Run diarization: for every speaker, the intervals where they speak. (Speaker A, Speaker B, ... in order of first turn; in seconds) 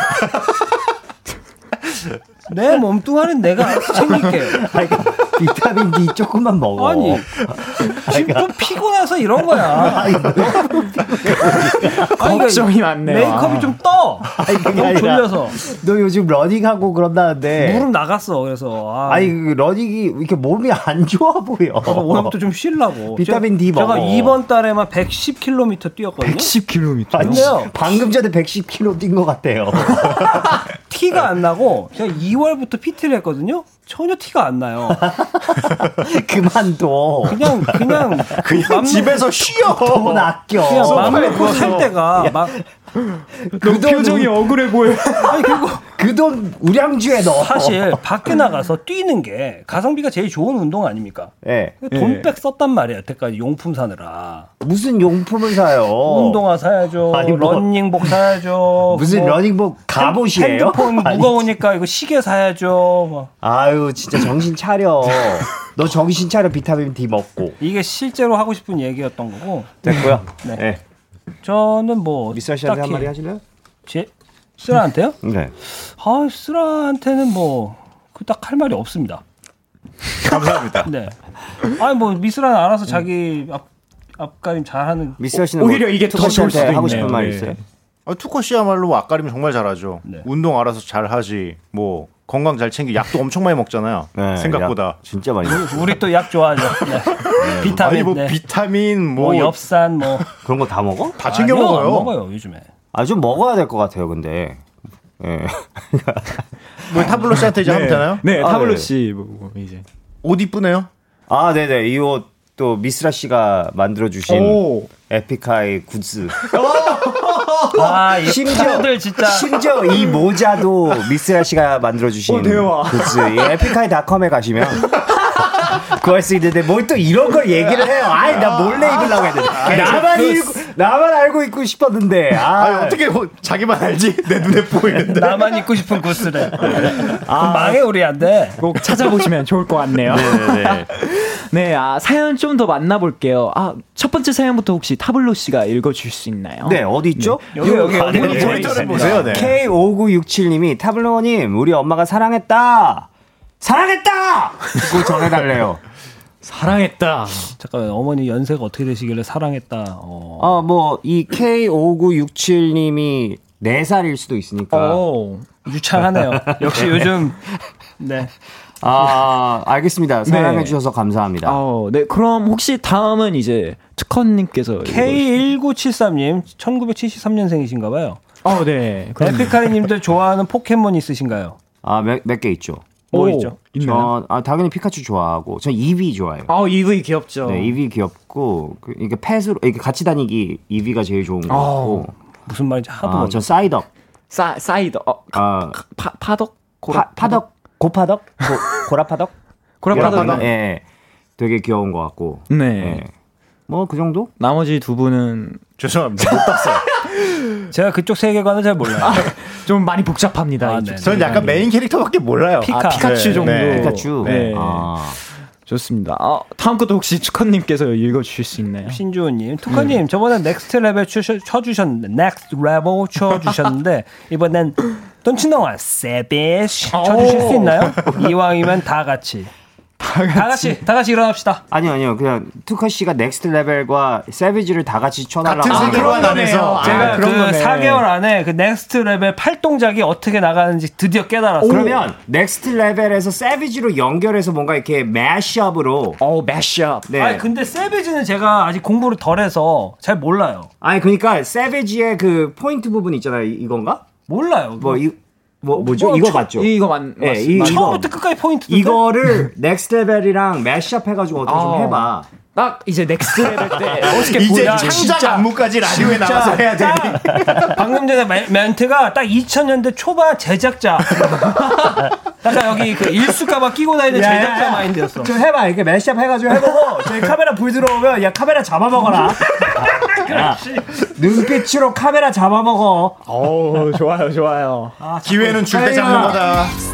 Speaker A: 2.5-4.7, 6.8-7.3, 8.0-10.5, 12.2-15.6, 17.6-19.4, 21.8-26.5, 27.2-27.8, 30.9-35.1, 37.3-39.3, 40.6-42.5, 45.3-45.9, 47.4-51.3, 51.8-54.5, 56.0-59.4, 59.9-63.3, 67.6-69.8, 71.4-73.1, 73.9-75.2, 76.0-79.2, 80.8-81.2, 81.7-85.2, 86.7-87.1, 95.5-98.4, 99.2-100.3, 101.2-102.7, 117.7-119.8, 129.7-130.5, 135.1-138.6, 147.5-149.5, 157.6-160.6, 165.7-167.4, 168.0-168.3, 174.8-178.2, 179.2-181.6, 183.1-183.6, 192.5-193.5, 207.7-209.3, 210.6-211.6, 212.6-213.6, 218.9-229.5, 230.3-231.6, 236.8-242.1, 247.1-250.7, 254.3-255.1, 257.6-259.2, 264.3-265.4, 266.4-271.7, 272.4-275.4, 279.9-281.1, 285.0-286.2
Speaker B: 4.4-8.5, 9.6-12.2, 14.4-17.9, 19.1-22.4, 23.1-24.4, 27.1-30.6, 34.9-38.2, 39.7-42.6, 43.4-44.5, 45.9-48.0, 51.4-51.8, 54.6-56.4, 57.1-57.7, 58.9-61.5, 63.4-67.6, 69.8-70.8, 72.3-73.4, 75.2-75.5, 85.2-87.6, 94.2-96.0, 97.4-97.8, 100.4-101.2, 102.9-104.6, 105.2-106.4, 108.3-108.9, 111.3-116.5, 117.8-125.0, 125.6-133.0, 137.3-137.8, 140.1-140.9, 146.7-153.1, 153.6-155.8, 160.4-165.0, 166.3-167.1, 168.8-171.6, 181.8-182.9, 183.8-186.5, 187.5-192.1, 193.0-193.9, 195.3-195.8, 196.9-199.3, 199.9-200.8, 201.4-203.1, 203.7-204.3, 213.6-215.2, 231.7-237.0, 241.6-246.2, 247.1-247.4, 250.8-254.1, 254.8-258.1, 258.7-262.3, 266.0-267.8, 274.1-283.2, 285.7-286.5
Speaker C: 12.2-13.8, 26.2-27.5, 40.9-41.9, 43.2-45.5, 51.9-52.3, 85.6-87.6, 107.5-109.8, 114.3-114.9, 116.5-118.0, 122.3-123.7, 138.6-147.4, 148.2-149.2, 156.4-157.5, 164.7-165.5, 170.3-170.8, 171.4-175.3, 178.4-179.7, 183.1-184.1, 186.5-187.8, 191.5-192.1, 194.3-197.4, 199.8-200.5, 202.5-203.0, 204.4-205.6, 207.0-207.7, 209.0-211.6, 212.7-214.9, 215.7-219.0, 219.7-219.9, 226.9-228.0, 230.0-230.8, 235.7-238.0, 246.2-247.1, 255.8-258.0, 261.5-265.4, 271.6-271.9, 283.3-284.9
Speaker D: 38.4-40.3, 41.0-41.9, 80.2-80.9, 88.1-95.0, 97.2-99.6, 101.2-102.1, 106.9-108.2, 110.2-110.9, 128.3-130.1, 132.6-135.7, 148.1-149.5, 199.9-200.5, 205.8-206.8, 211.0-214.5, 235.4-237.2, 264.1-267.7, 285.2-286.8